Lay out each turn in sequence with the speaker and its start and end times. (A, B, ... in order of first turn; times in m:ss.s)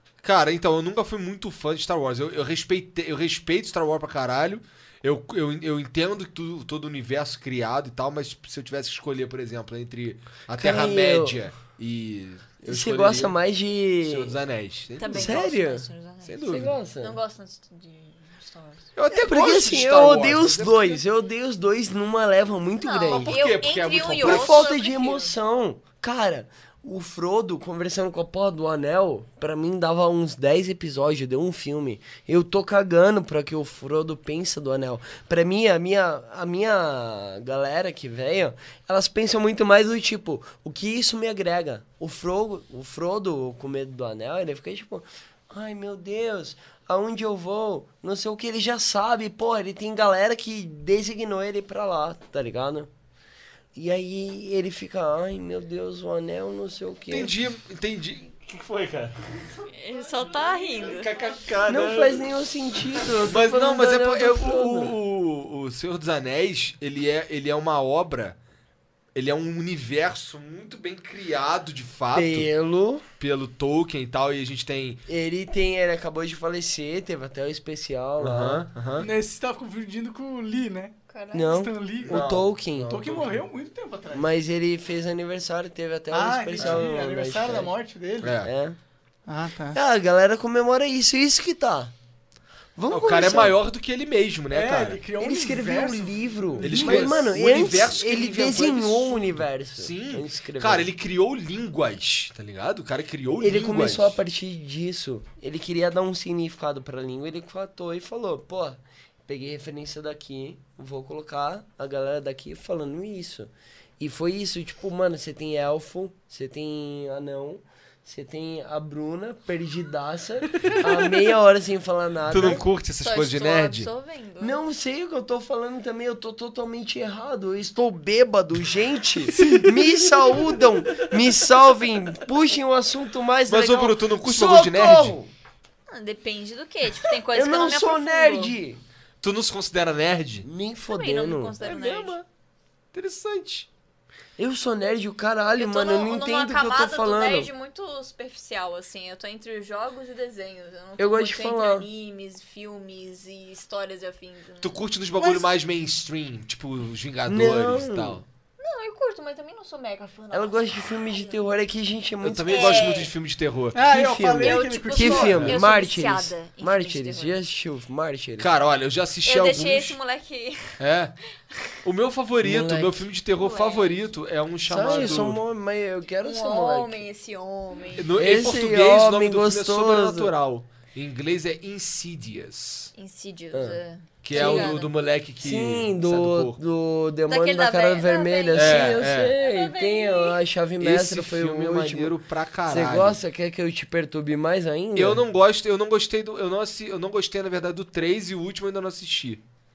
0:00.2-0:13.4 A
0:10.6-0:11.4 B
0:12.6-0:14.4 B
0:14.0-0:15.4 A
0:15.0-0:18.9 C
0:15.0-0:15.8 B
0:16.2-0:16.8 A
0:16.5-0:17.2 B
0:19.0-0:21.0 A
0:19.1-0:23.3 B
0:22.8-0:25.3 C
0:23.1-0:24.6 A
0:24.2-0:52.9 B
0:53.7-0:57.3 B
0:57.1-0:59.5 A
0:59.7-1:01.1 C
1:00.8-1:02.3 A
1:01.7-1:04.9 B
1:03.1-1:08.4 A
1:09.1-1:12.5 A
1:12.1-1:13.0 B
1:13.2-1:15.0 A
1:15.1-1:18.6 B
1:18.2-1:19.1 A
1:19.0-1:20.9 D
1:21.1-1:21.6 C
1:21.3-1:23.0 B
1:21.5-1:22.3 D
1:22.0-1:23.4 A
1:22.9-1:24.3 D
1:24.1-1:27.7 B
1:26.1-1:28.4 D
1:26.6-1:26.8 A
1:28.2-1:28.5 A
1:28.4-1:28.8 B
1:29.2-1:29.8 D
1:29.7-1:31.9 B
1:32.8-1:33.6 B
1:32.9-1:35.0 A
1:34.5-1:37.2 D
1:35.2-1:40.9 B
1:36.6-1:44.2 A
1:43.4-2:02.6 B
2:02.3-2:03.9 A
2:03.0-2:04.6 C
2:04.4-2:15.3 B
2:09.3-2:09.8 D
2:13.5-2:15.2 A
2:15.9-2:18.5 C
2:17.3-2:18.8 B
2:19.2-2:20.4 A
2:20.4-2:21.5 B
2:20.9-2:22.2 C
2:21.6-2:22.2 A
2:22.9-2:23.7 A
2:24.4-2:27.5 B
2:25.6-2:34.8 C
2:31.0-2:31.9 B
2:34.6-2:38.2 A
2:35.2-2:35.5 D
2:37.3-2:38.2 B
2:38.6-2:41.4 C
2:40.3-2:42.8 B
2:42.2-2:43.8 A
2:42.5-2:43.1 C
2:43.7-2:45.5 D
2:43.8-2:48.5 B
2:44.4-2:47.4 C
2:45.2-2:45.5 A
2:48.4-2:50.0 A
2:49.2-2:50.8 C
2:50.8-2:51.1 A
2:51.8-2:55.4 A
2:52.4-2:53.0 B
2:53.4-2:54.0 C
2:54.7-2:57.0 B
2:56.2-2:58.1 C
2:57.9-3:02.9 A
2:58.2-3:00.3 B
3:02.9-3:04.9 C
3:03.5-3:03.8 B
3:04.2-3:06.6 A
3:04.3-3:04.8 B
3:05.4-3:12.2 B
3:07.3-3:10.4 C
3:08.5-3:09.3 A
3:10.8-3:13.2 A
3:12.7-3:15.2 B
3:15.0-3:19.4 A